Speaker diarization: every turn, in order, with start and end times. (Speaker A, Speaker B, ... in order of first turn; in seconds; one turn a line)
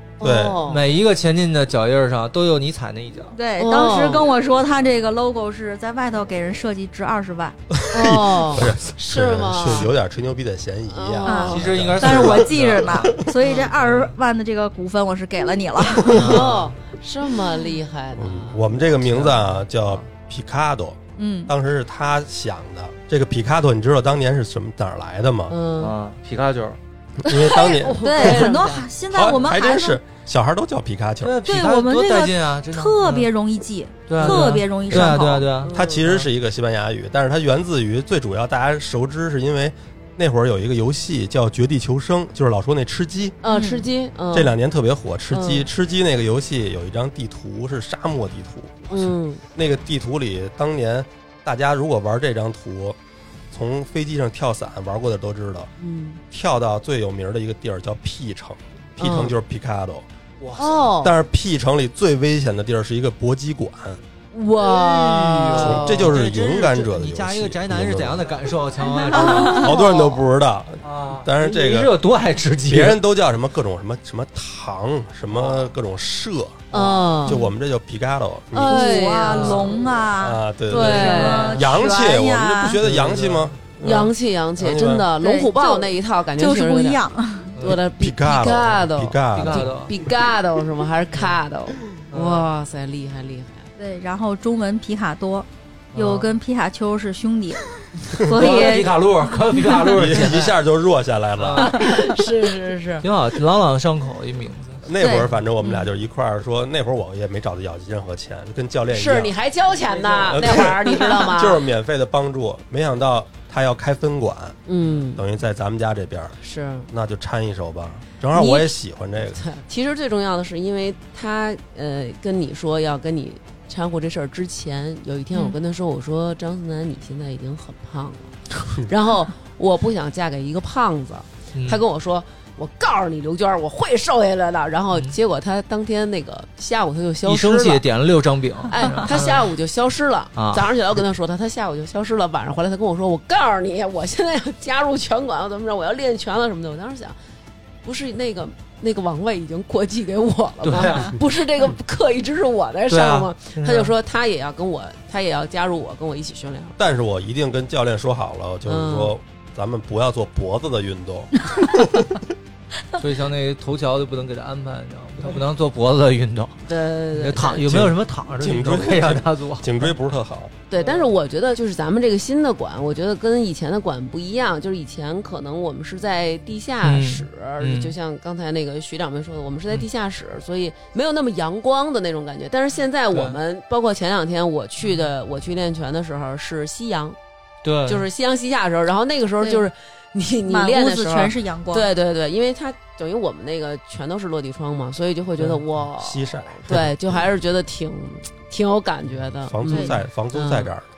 Speaker A: 0.2-0.8
Speaker B: 0.2-0.6
Speaker C: 0.7-3.4
Speaker D: 3.3-7.6
Speaker A: 3.6-4.3
Speaker B: 7.7-13.2
Speaker A: 7.9-9.9
Speaker A: 10.9-11.9
Speaker D: 11.2-16.4
Speaker C: 11.5-13.2
Speaker A: 13.4-13.7
Speaker C: 13.7-14.1
Speaker A: 16.0-19.0
Speaker C: 16.1-16.7
Speaker B: 18.2-25.6
Speaker C: 19.1-20.0
Speaker D: 21.2-21.5
Speaker A: 25.5-25.9
Speaker C: 25.8-26.8
Speaker B: 27.2-28.5
Speaker A: 27.3-28.9
Speaker D: 27.9-30.0
Speaker B: 29.1-31.4
Speaker C: 31.2-33.3
Speaker D: 31.4-35.5
Speaker C: 34.1-36.3
Speaker A: 34.2-36.0
Speaker B: 35.7-43.4
Speaker A: 43.4-44.5
Speaker D: 43.5-43.9
Speaker B: 44.3-53.0
Speaker A: 45.3-45.7
Speaker A: 48.9-49.4
Speaker B: 53.5-55.7
Speaker A: 55.8-56.2
Speaker B: 56.3-60.1
Speaker A: 59.0-59.3
Speaker C: 60.4-60.7
Speaker A: 60.6-61.1
Speaker B: 61.0-64.0
Speaker A: 64.3-66.1
Speaker C: 64.6-69.7
Speaker B: 65.5-68.3
Speaker D: 69.0-69.8
Speaker A: 69.1-70.2
Speaker B: 69.4-72.0
Speaker C: 70.8-73.0
Speaker B: 72.7-76.7
Speaker C: 75.3-75.7
Speaker C: 76.7-77.0
Speaker A: 76.7-77.4
Speaker B: 77.2-79.0
Speaker D: 77.3-77.5
Speaker A: 78.5-79.9
Speaker D: 78.6-82.8
Speaker C: 79.2-79.9
Speaker B: 80.2-85.1
Speaker A: 80.7-81.7
Speaker C: 80.7-81.8
Speaker C: 82.8-83.5
Speaker A: 83.8-87.0
Speaker D: 85.1-87.6
Speaker A: 87.6-93.7
Speaker B: 87.7-89.7
Speaker C: 89.3-89.9
Speaker C: 92.1-92.5
Speaker D: 93.8-99.0
Speaker C: 95.9-96.4
Speaker C: 98.3-100.6
Speaker B: 99.8-101.9
Speaker C: 101.4-101.9
Speaker A: 101.6-103.1
Speaker C: 103.0-104.9
Speaker B: 104.8-109.3
Speaker D: 105.0-105.3
Speaker A: 108.9-111.6
Speaker C: 110.0-110.3
Speaker B: 110.3-114.6
Speaker A: 114.7-115.2
Speaker B: 115.2-116.4
Speaker A: 116.4-116.9
Speaker B: 116.9-119.4
Speaker A: 118.3-118.8
Speaker A: 119.3-137.8
Speaker C: 131.6-131.8
Speaker C: 137.2-139.4
Speaker A: 138.7-147.2
Speaker C: 140.4-140.7
Speaker A: 147.8-156.8
Speaker C: 150.6-151.2
Speaker C: 152.9-153.9
Speaker B: 156.8-162.2
Speaker A: 158.7-159.1
Speaker C: 163.0-166.6
Speaker A: 166.7-167.8
Speaker C: 167.1-169.9
Speaker B: 167.6-170.5
Speaker A: 170.7-187.2
Speaker C: 170.8-171.1
Speaker C: 176.8-177.9
Speaker C: 183.1-183.4
Speaker C: 187.6-188.1
Speaker A: 187.9-200.7
Speaker D: 189.4-189.7
Speaker D: 190.4-191.9
Speaker B: 196.0-196.9
Speaker B: 199.5-200.9